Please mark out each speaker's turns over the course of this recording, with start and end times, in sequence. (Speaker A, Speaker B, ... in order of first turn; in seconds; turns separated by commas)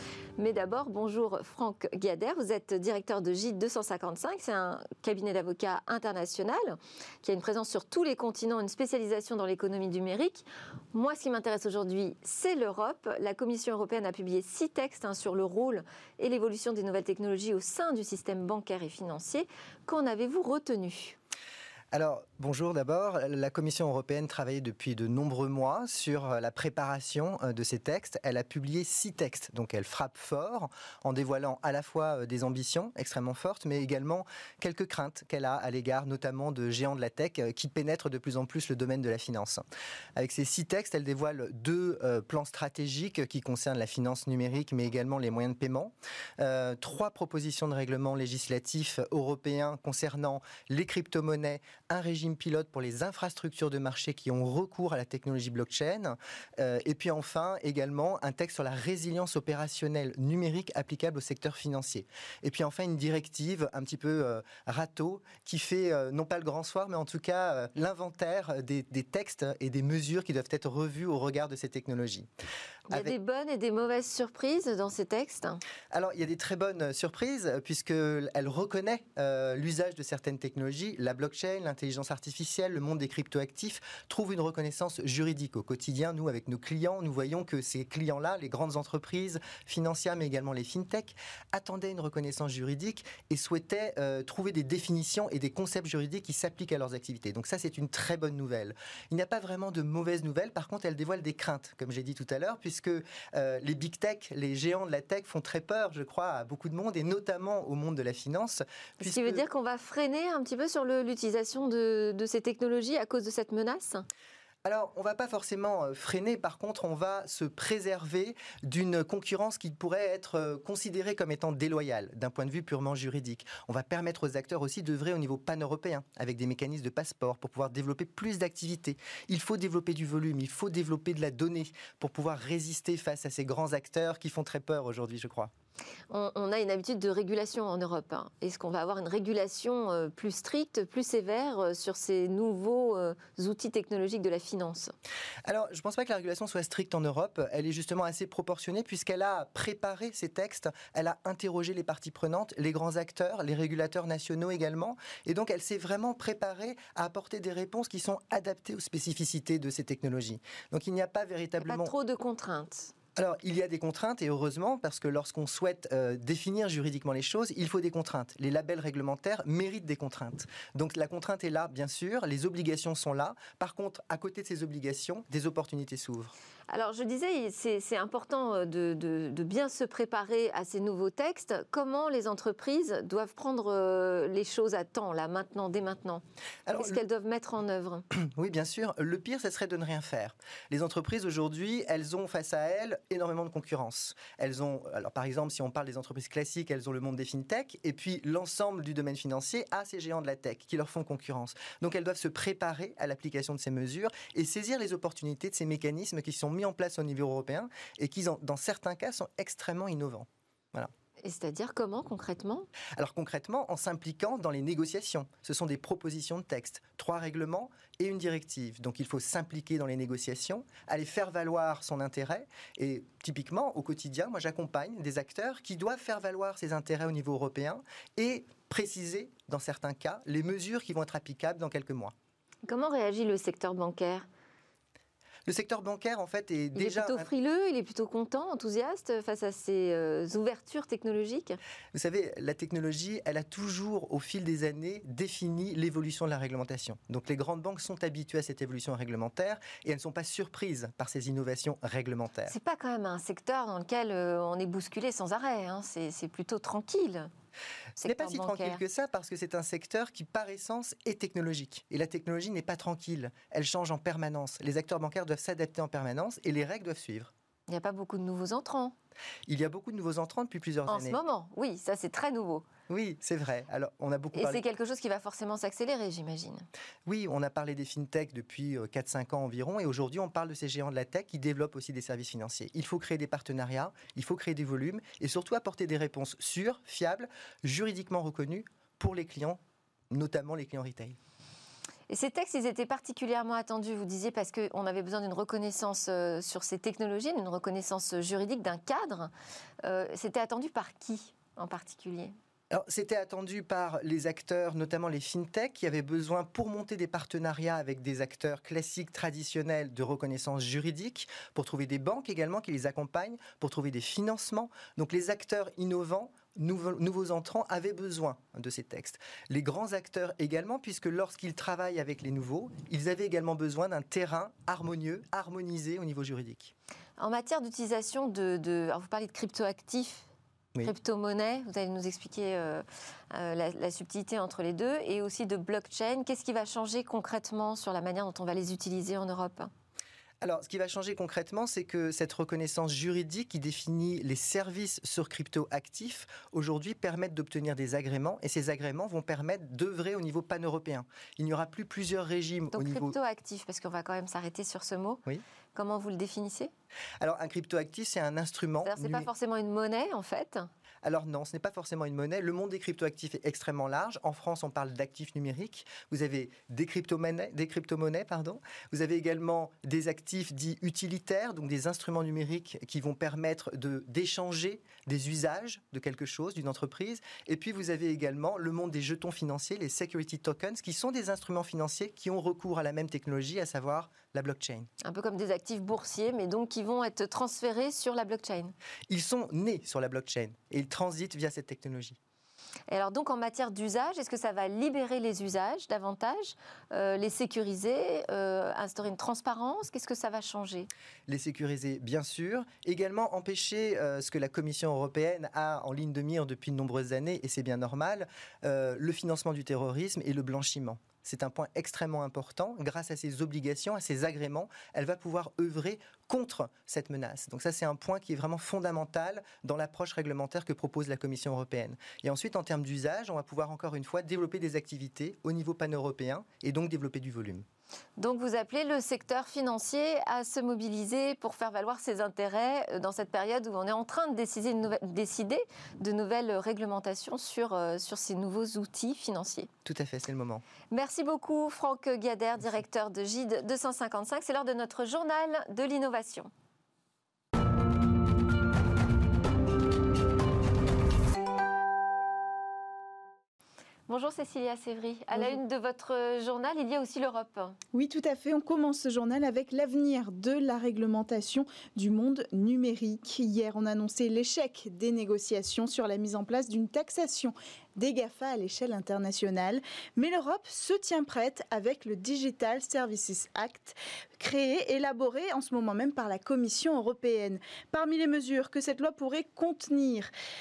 Speaker A: 0.4-21.2, Speaker B: 21.9-39.6, Speaker B: 40.2-72.3, Speaker A: 72.9-75.6, Speaker B: 75.9-109.4, Speaker A: 109.0-114.0, Speaker B: 114.7-135.5, Speaker A: 136.1-144.9, Speaker B: 145.4-161.9, Speaker A: 161.6-162.9, Speaker B: 163.2-176.3, Speaker A: 176.7-186.2, Speaker B: 186.7-187.0, Speaker A: 186.7-188.1, Speaker B: 188.1-210.9, Speaker A: 211.2-212.7, Speaker B: 212.9-232.1, Speaker A: 232.7-234.3, Speaker B: 235.5-237.3, Speaker A: 236.8-241.6, Speaker B: 241.9-252.5, Speaker A: 252.5-257.3, Speaker A: 258.0-258.8, Speaker B: 258.0-267.3, Speaker A: 267.7-268.9, Speaker B: 269.5-271.2, Speaker A: 270.9-272.6, Speaker B: 272.9-274.6, Speaker A: 274.3-276.7, Speaker B: 277.1-289.6, Speaker B: 290.1-291.2, Speaker A: 292.1-299.3, Speaker A: 299.8-302.3, Speaker B: 302.7-326.7, Speaker A: 327.2-330.3, Speaker A: 330.8-339.7, Speaker B: 340.4-353.2, Speaker A: 352.7-355.2, Speaker A: 355.8-356.7, Speaker B: 357.2-359.3, Speaker A: 358.9-360.7, Speaker B: 361.0-384.9, Speaker A: 385.0-388.7, Speaker B: 389.1-392.2, Speaker A: 392.9-400.9, Speaker B: 401.3-427.6, Speaker A: 428.2-439.7, Speaker B: 439.9-440.6, Speaker A: 440.9-446.5, Speaker A: 454.1-457.8, Speaker C: 457.9-480.3